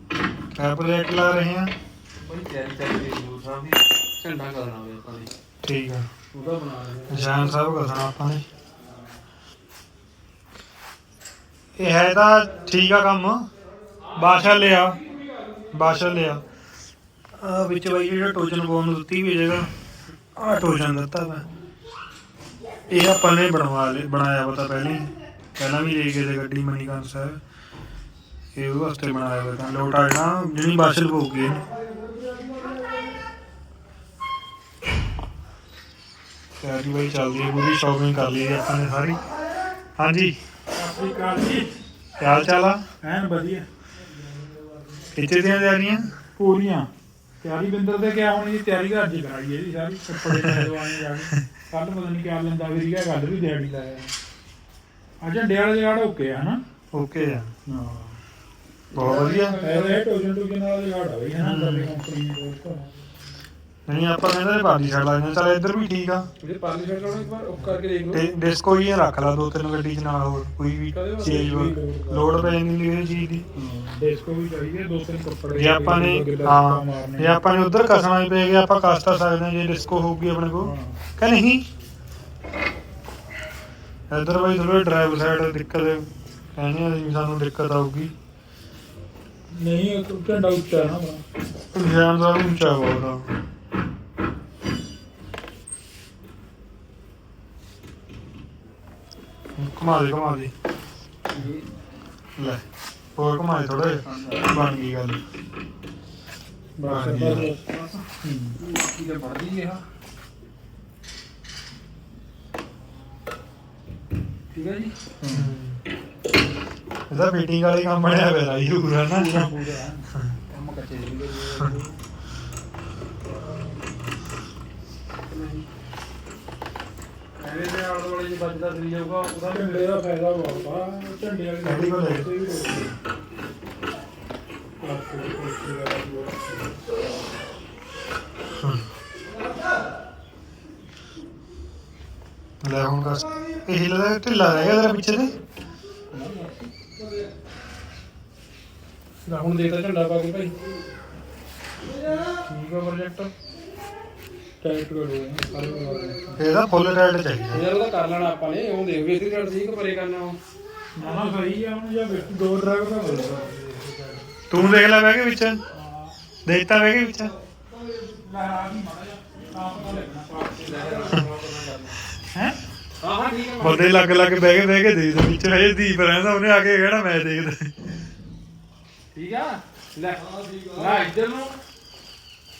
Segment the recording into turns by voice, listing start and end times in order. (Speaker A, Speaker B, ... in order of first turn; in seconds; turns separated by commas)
Speaker A: 0.5-1.7, Speaker B: 2.2-5.3, Speaker A: 5.6-6.1, Speaker B: 6.3-7.6, Speaker A: 7.1-8.4, Speaker A: 11.8-13.5, Speaker A: 14.1-15.0, Speaker A: 15.7-16.4, Speaker A: 17.3-19.7, Speaker A: 20.4-21.5, Speaker A: 22.9-27.4, Speaker A: 28.6-31.6, Speaker A: 36.6-39.2, Speaker A: 40.0-40.4, Speaker C: 40.7-41.8, Speaker A: 42.2-42.8, Speaker C: 43.0-43.7, Speaker A: 45.1-46.1, Speaker C: 46.4-46.9, Speaker C: 47.4-54.1, Speaker A: 50.3-50.7, Speaker C: 55.2-56.6, Speaker A: 56.9-57.5, Speaker C: 57.7-58.2, Speaker A: 58.9-59.6, Speaker B: 59.0-60.0, Speaker C: 59.6-62.9, Speaker A: 61.4-62.0, Speaker A: 63.9-66.3, Speaker B: 66.4-68.3, Speaker C: 67.2-67.8, Speaker A: 68.1-73.5, Speaker B: 70.9-72.4, Speaker C: 71.2-71.8, Speaker C: 73.5-77.4, Speaker A: 75.5-81.7, Speaker C: 80.6-81.0, Speaker A: 84.1-88.1, Speaker C: 89.5-91.2, Speaker A: 91.7-93.3, Speaker A: 99.6-100.5, Speaker B: 101.3-101.7, Speaker A: 102.4-102.6, Speaker A: 103.2-105.2, Speaker B: 104.1-104.4, Speaker C: 106.8-108.6, Speaker A: 106.9-107.5, Speaker B: 108.6-109.8, Speaker B: 114.5-114.9, Speaker C: 115.1-115.6, Speaker A: 115.3-115.8, Speaker A: 117.1-119.5, Speaker C: 119.1-121.9, Speaker B: 125.3-125.7, Speaker B: 127.4-129.9, Speaker C: 129.4-133.0, Speaker A: 131.6-132.3, Speaker C: 134.8-136.8, Speaker A: 138.6-138.8, Speaker A: 142.6-145.3, Speaker C: 146.1-146.7, Speaker B: 149.3-150.6, Speaker C: 152.1-153.3, Speaker C: 154.6-156.4, Speaker A: 156.4-157.7, Speaker B: 157.5-160.4, Speaker C: 161.0-164.2, Speaker A: 164.5-165.6, Speaker C: 165.7-166.2, Speaker A: 166.5-167.3, Speaker C: 167.9-171.2, Speaker B: 170.5-172.0, Speaker C: 172.3-172.6, Speaker B: 173.0-173.9, Speaker A: 173.6-177.7, Speaker B: 179.1-181.6